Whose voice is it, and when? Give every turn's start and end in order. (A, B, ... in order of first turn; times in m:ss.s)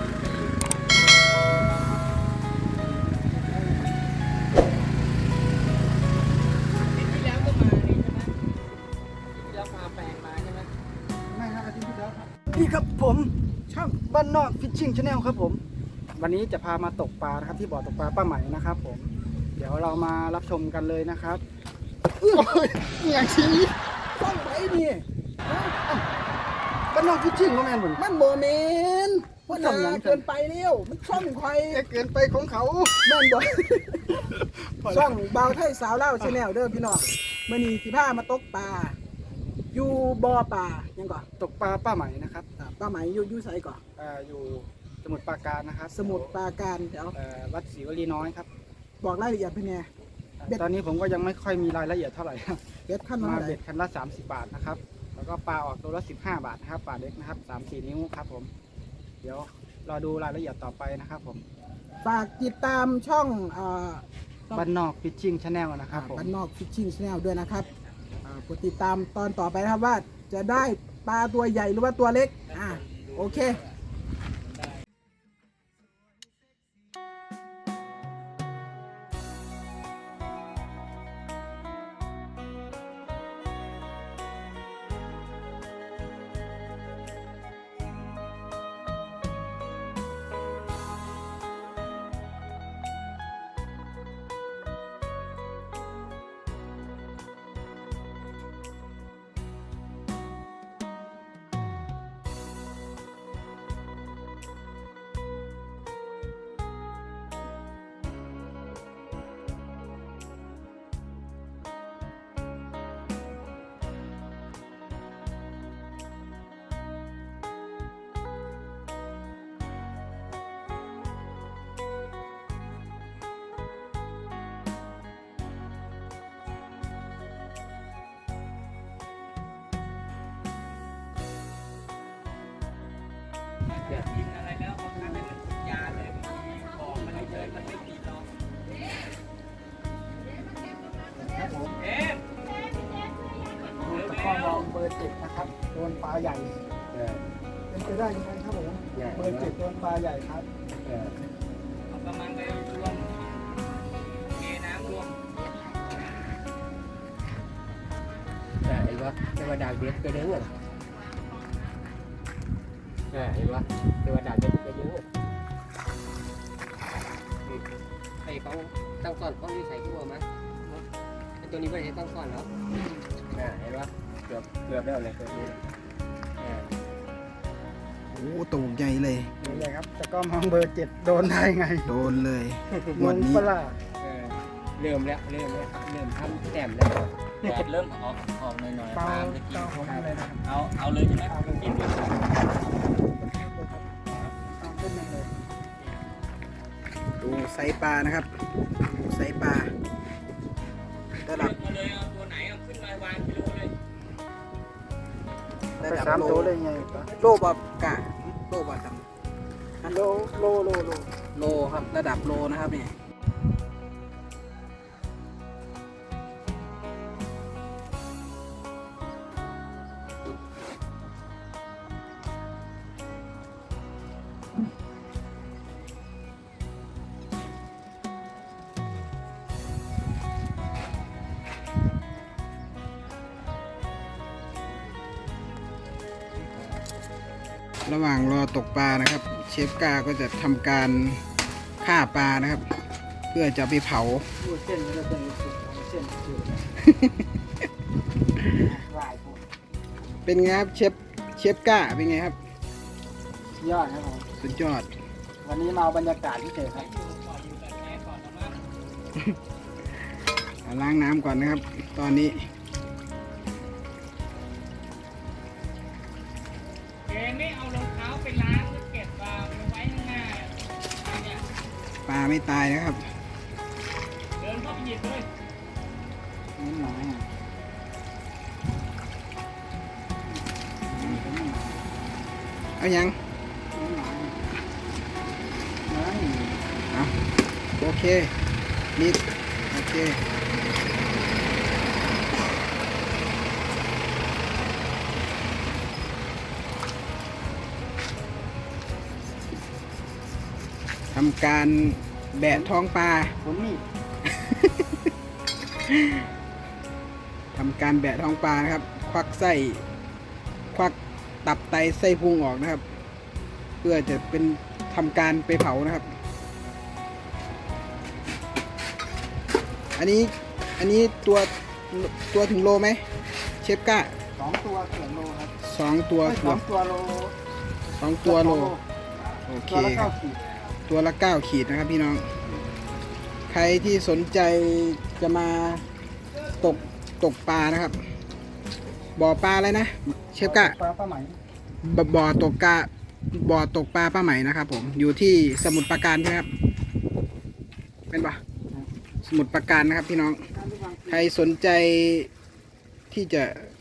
0:03.4-0:03.9 A
0:06.8-0:08.3 B
0:09.3-0:10.7 B
0:11.3-0:15.6 A
0:16.2-0:21.4 A
0:22.2-0:22.8 C
0:22.3-0:26.0 A
0:26.9-0:28.0 A
0:28.0-0:31.8 C
0:29.5-0:30.2 A
0:31.7-0:33.4 A
0:33.0-0:34.2 C
0:34.1-0:35.5 A
0:34.8-0:39.0 C
0:39.7-0:41.2 C
0:41.4-0:42.5 A
0:42.6-0:43.8 C
0:44.0-0:46.3 A
0:45.9-0:47.2 C
0:47.1-0:48.5 A
0:49.0-0:49.9 C
0:50.4-0:52.6 A
0:52.9-0:53.6 C
0:53.2-0:58.5 A
0:59.2-1:01.4 A
1:02.0-1:04.7 C
1:04.5-1:06.3 A
1:05.9-1:07.7 C
1:08.2-1:13.6 C
1:12.5-1:13.7 B
2:13.8-2:18.3 B
2:21.2-2:21.8 A
2:21.8-2:22.2 B
2:23.8-2:24.7 B
2:23.8-2:26.6 A
2:26.9-2:27.2 D
2:27.7-2:30.5 A
2:28.9-2:29.5 D
2:30.8-2:31.2 D
2:31.9-2:33.2 B
2:34.3-2:35.2 B
2:38.6-2:40.5 D
2:43.1-2:45.0 D
2:48.2-2:50.8 D
2:51.4-2:52.5 D
2:53.3-2:55.6 D
2:56.4-2:56.7 D
2:58.1-2:59.3 C
2:59.4-3:02.0 A
2:59.4-2:59.7 D
3:01.9-3:03.5 C
3:02.9-3:03.8 A
3:04.0-3:07.6 D
3:07.4-3:09.7 B
3:09.0-3:10.5 A
3:09.0-3:10.0 D
3:10.4-3:12.2 B
3:11.3-3:15.3 A
3:17.2-3:18.3 C
3:18.8-3:19.7 C
3:21.2-3:21.5 C
3:21.2-3:23.7 B
3:25.8-3:26.5 C
3:25.8-3:27.1 A
3:27.1-3:29.1 C
3:29.8-3:32.9 C
3:29.8-3:31.0 A
3:57.8-4:01.2 C
4:01.8-4:02.6 C
4:03.3-4:04.2 C
4:04.4-4:06.6 A
4:06.8-4:07.2 C
4:08.5-4:09.4 A
4:10.2-4:12.4 C
4:13.6-4:14.2 A
4:14.4-4:14.9 C
4:15.4-4:16.9 A
4:16.7-4:18.6 B
4:20.6-4:22.4 C
4:27.1-4:31.4 B
4:32.1-4:33.0 C
4:34.4-4:35.3 B
4:36.6-4:37.3 A
4:40.9-4:41.8 A
4:42.8-4:43.2 C
4:43.7-4:44.4 A
4:45.9-4:46.6 A
4:46.9-4:47.2 C
4:47.8-4:48.3 C
4:49.0-4:50.2 C
5:01.1-5:03.3 C
5:03.4-5:03.8 A
5:04.2-5:05.1 C
5:05.9-5:06.3 C
5:07.5-5:09.8 C
5:10.7-5:12.8 C
5:13.8-5:16.1 C
5:20.0-5:23.0 C
5:23.6-5:24.1 C
5:24.3-5:25.6 A
5:25.6-5:26.6 C
5:26.2-5:27.3 A
5:28.0-5:28.7 C
5:28.2-5:28.8 A
5:29.5-5:30.1 C
5:29.6-5:30.5 A
5:30.8-5:32.3 C
5:33.5-5:35.8 C
5:36.6-5:38.0 C
5:39.2-5:40.8 C
5:40.4-5:41.4 A
5:41.8-5:46.5 C
5:48.1-5:48.4 C
5:49.2-5:50.4 C
5:50.5-5:51.3 A
5:51.1-5:52.3 C
5:53.1-5:53.7 C